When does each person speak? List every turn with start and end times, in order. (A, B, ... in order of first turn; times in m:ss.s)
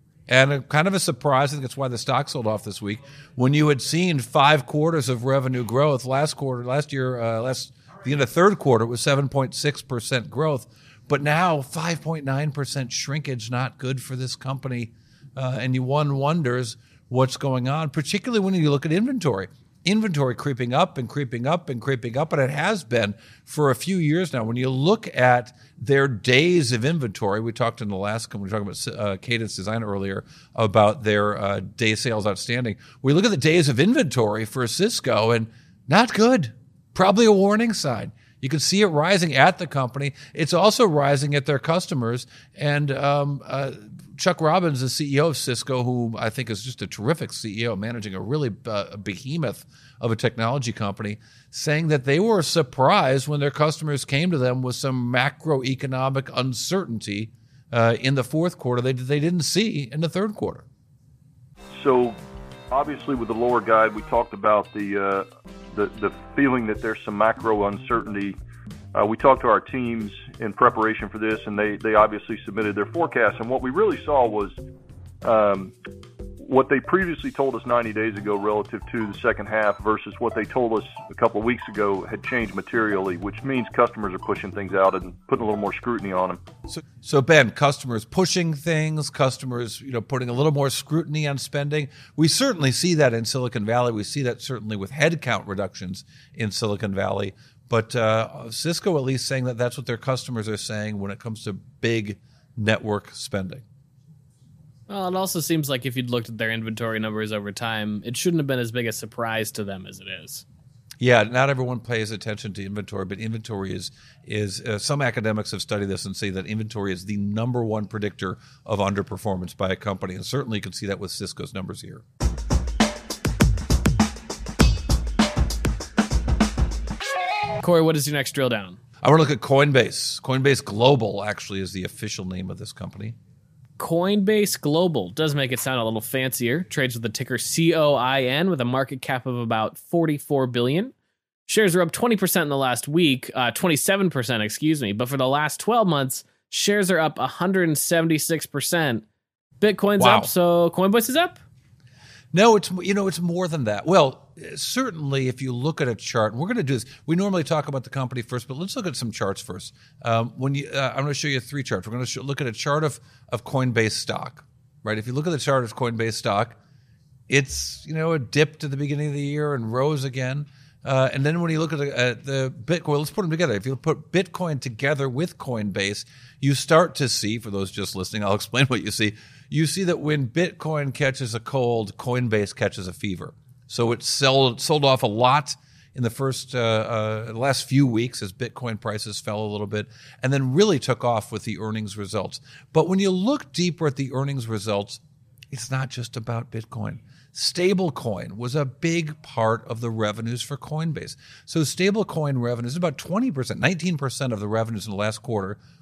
0:00.3-1:00.6 A
1:01.7-1:02.2 B
1:02.7-1:08.4 B
1:08.9-1:14.6 B
1:15.2-1:15.7 B
1:16.4-1:26.4 B
1:27.0-1:43.6 A
1:44.9-1:50.4 C
1:51.0-2:02.0 A
2:07.6-2:08.8 C
2:09.0-2:13.2 A
2:13.8-2:20.9 C
2:21.5-2:29.0 C
2:29.6-2:31.4 C
2:30.0-2:30.3 A
2:32.3-2:46.6 A
2:47.3-3:15.0 A
3:15.5-3:25.6 A